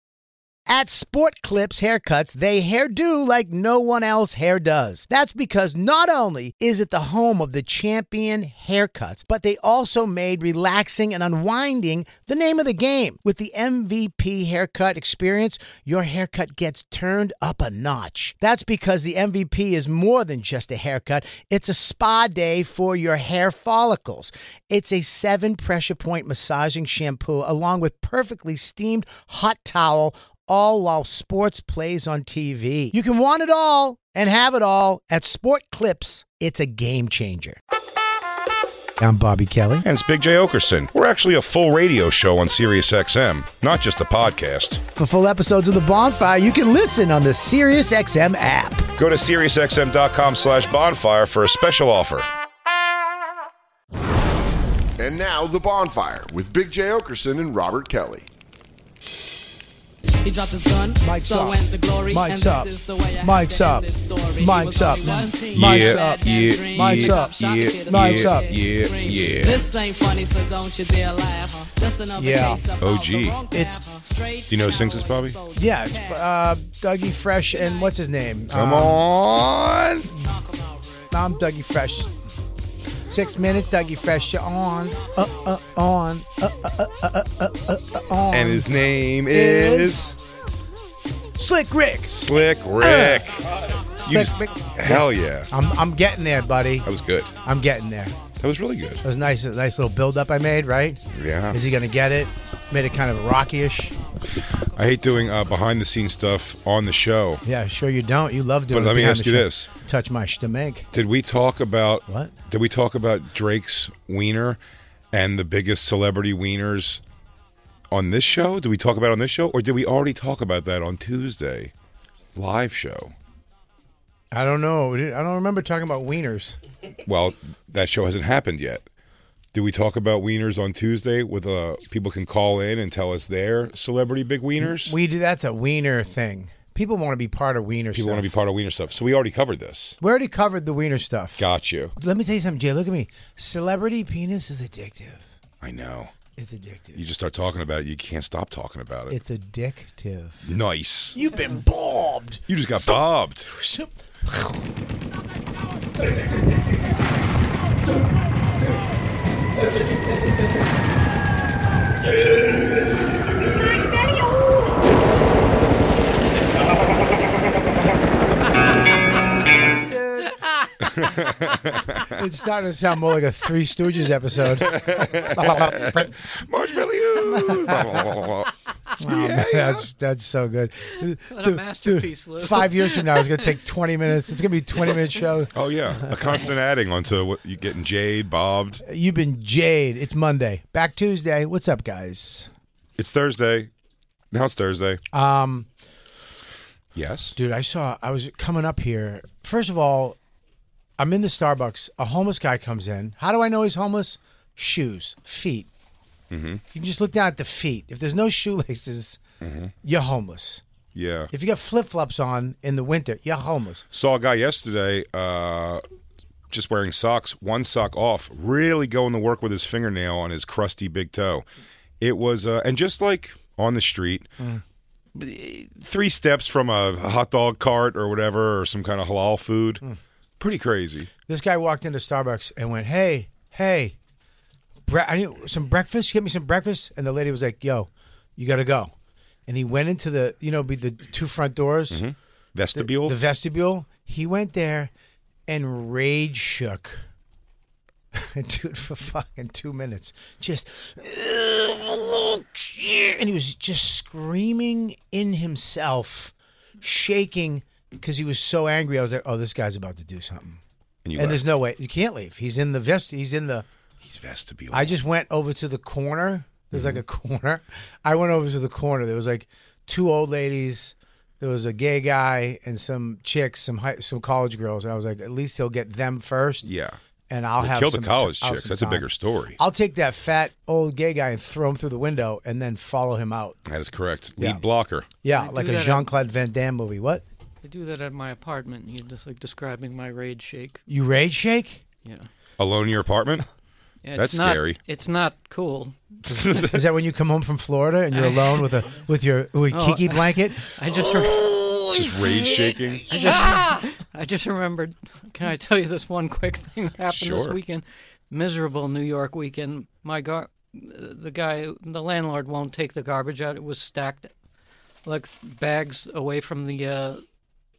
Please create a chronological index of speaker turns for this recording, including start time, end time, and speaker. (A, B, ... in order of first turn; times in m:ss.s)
0:00.7-0:37.6 A
0:39.0-0:39.8 A
0:39.8-0:44.8 B
0:45.0-0:48.9 A
0:49.0-0:52.3 B
0:55.0-0:58.3 C
1:00.2-1:16.5 D
1:01.0-1:08.7 A
1:05.5-1:09.6 B
1:12.2-1:12.6 A
1:12.8-1:13.4 B
1:13.5-1:13.8 A
1:14.5-1:15.4 B
1:15.5-1:19.1 A
1:18.5-1:20.1 B
1:20.2-1:21.1 D
1:21.1-1:22.1 A
1:23.1-1:30.1 A
1:28.3-1:30.1 B
1:31.4-1:33.4 A
1:32.1-1:35.5 B
1:34.0-1:36.9 A
1:36.8-1:37.3 B
1:37.4-1:38.2 A
1:38.4-1:39.0 B
1:39.0-1:44.0 A
1:41.1-1:41.6 B
1:44.7-1:47.4 B
1:47.4-1:50.9 A
1:48.7-1:49.7 B
1:50.9-1:54.6 B
1:52.1-1:52.3 A
1:55.1-1:57.0 B
1:57.9-2:01.7 B
2:02.3-2:03.1 B
2:04.3-2:06.6 A
2:07.0-2:08.8 B
2:09.5-2:15.0 B
2:14.6-2:18.4 A
2:17.9-2:20.0 B
2:20.0-2:25.3 A
2:21.4-2:21.9 B
2:25.6-2:26.1 B
2:26.4-2:27.0 A
2:27.0-2:29.2 B
2:29.1-2:30.5 A
2:30.4-2:31.2 B
2:31.1-2:34.6 A
2:32.5-2:33.5 B
2:49.8-2:50.3 A
2:51.0-2:52.1 B
2:52.1-2:56.1 A
2:54.6-2:59.9 B
2:57.3-2:58.0 A
2:59.0-3:06.4 A
3:01.3-3:03.6 E
3:05.5-3:08.8 B
3:08.8-3:12.5 A
3:13.0-3:13.7 B
3:14.3-3:15.0 B
3:15.1-3:15.7 A
3:16.9-3:17.3 B
3:17.3-3:20.2 A
3:21.0-3:25.7 A
3:26.3-3:26.6 B
3:26.7-3:29.2 A
3:29.4-3:29.7 B
3:29.8-3:30.6 A
3:30.9-3:31.3 B
3:31.3-3:33.9 A
3:33.9-3:35.8 B
3:36.5-3:41.4 B
3:42.0-3:44.3 B
3:45.1-3:49.8 B
3:50.4-3:51.1 B
3:51.2-3:54.0 A
3:54.8-3:58.9 A
3:59.5-4:02.0 A
4:01.9-4:03.2 B
4:02.7-4:04.9 A
4:05.5-4:07.1 A
4:08.1-4:20.6 A
4:21.0-4:21.4 B
4:21.2-4:23.6 A
4:24.0-4:25.0 B
4:24.7-4:36.7 A
4:26.7-4:27.0 B
4:36.6-4:37.0 B
4:37.3-4:39.0 A
4:37.6-4:39.6 B
4:39.6-4:43.6 A
4:43.6-4:45.1 B
4:45.2-4:47.2 A
4:45.3-4:46.1 E
4:47.6-4:50.8 E
4:50.9-4:51.8 A
4:52.6-4:53.4 B
4:54.0-4:56.0 E
4:54.2-4:54.8 B
4:56.3-4:56.8 B
4:56.5-5:03.6 A
4:58.1-4:58.6 E
4:59.7-5:01.4 E
5:01.9-5:03.1 B
5:03.1-5:14.3 E
5:07.1-5:07.6 B
5:15.0-5:17.2 E